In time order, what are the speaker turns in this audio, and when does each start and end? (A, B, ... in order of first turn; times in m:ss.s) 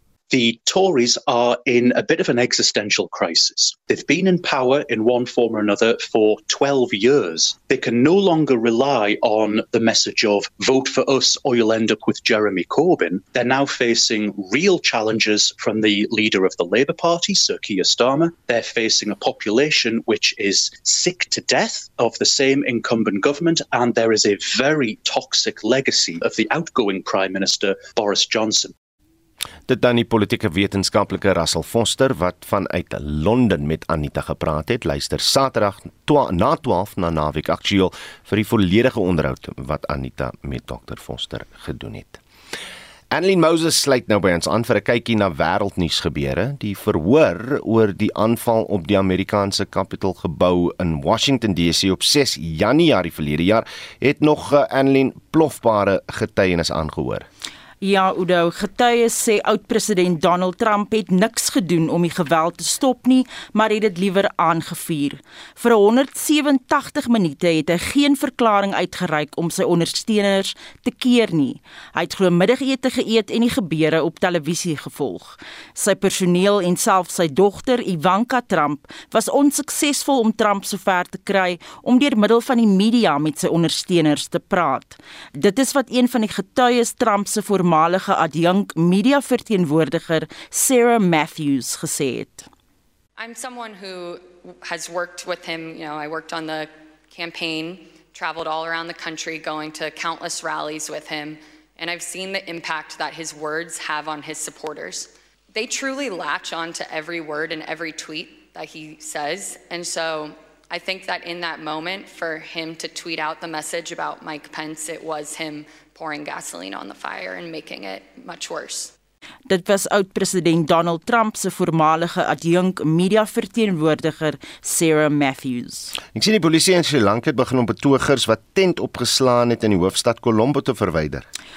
0:00.3-0:28.7 A
0:29.7-0:42.2 B
0:43.1-0:57.2 B
0:57.8-1:32.5 C
1:33.2-1:58.9 D
1:59.5-2:05.9 C
2:06.1-2:11.3 B